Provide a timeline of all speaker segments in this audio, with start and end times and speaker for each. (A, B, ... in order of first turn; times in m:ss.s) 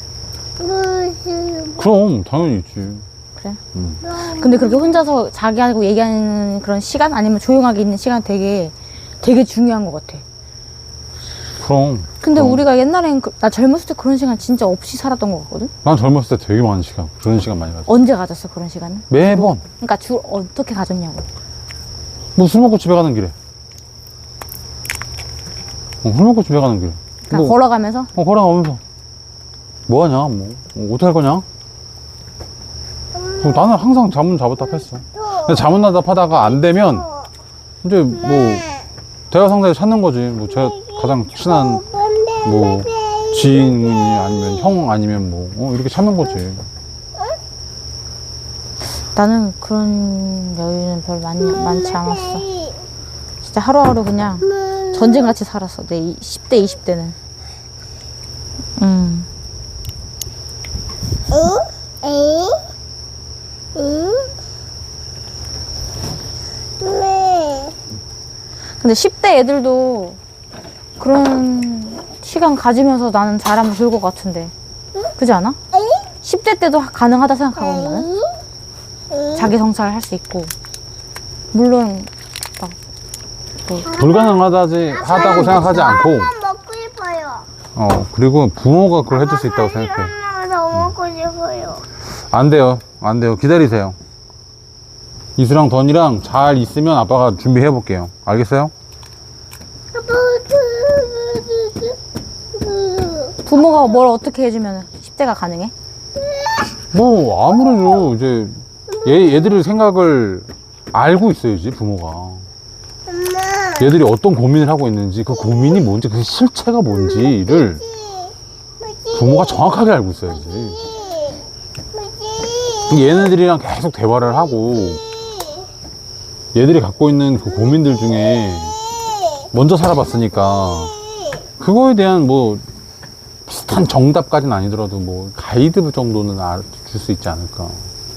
0:00.6-0:01.9 A
0:01.8-0:03.0 B
0:03.7-0:04.0 B
0:04.0-0:05.0 A
0:04.2-0:10.2 C
0:11.6-0:12.6 B
0:12.2-0:15.7 C
0:15.8-0:17.9 B
0:17.9-0:21.2 C
0:19.1-0:19.6 B
0:22.4-0:23.3 B
0:26.0-0:27.6 B
0:27.3-0:28.1 C
0:28.1-0:28.8 B
0:29.9-0:31.4 B
0:33.1-0:33.7 A
0:33.4-0:37.1 B
0:35.1-0:35.6 A
0:36.5-0:37.3 A
0:37.8-0:38.6 B
0:38.2-0:38.8 A
0:39.3-0:41.8 B
0:40.4-0:44.8 A
0:42.4-0:46.6 B
0:49.0-0:52.4 C
0:51.4-0:52.8 A
0:53.4-0:57.2 C
0:58.8-0:59.3 C
1:01.3-1:02.6 A
1:03.8-1:04.3 A
1:06.8-1:07.7 A
1:08.8-1:10.2 C
1:11.0-1:14.5 C
1:15.2-1:15.6 C
1:15.7-1:16.1 A
1:16.2-1:18.1 C
1:17.5-1:18.3 A
1:19.1-1:19.5 A
1:19.3-1:20.5 C
1:21.5-1:22.8 C
1:23.8-1:27.5 A
1:23.8-1:26.3 B
1:25.5-1:26.0 C
1:27.7-1:30.1 B
1:29.1-1:31.8 A
1:32.0-1:34.0 B
1:35.4-1:38.7 B
1:39.9-1:42.0 A
1:42.5-1:43.9 A
1:43.4-1:45.7 C
1:46.9-1:52.5 B
1:53.1-1:53.9 A
1:53.8-1:57.8 B
1:57.1-1:59.6 A
1:59.1-2:00.8 B
2:00.3-2:03.1 A
2:02.9-2:05.0 B
2:05.0-2:05.7 A
2:06.5-2:08.8 B
2:07.8-2:09.5 A
2:09.5-2:10.9 B
2:11.6-2:12.6 B
2:13.5-2:17.9 B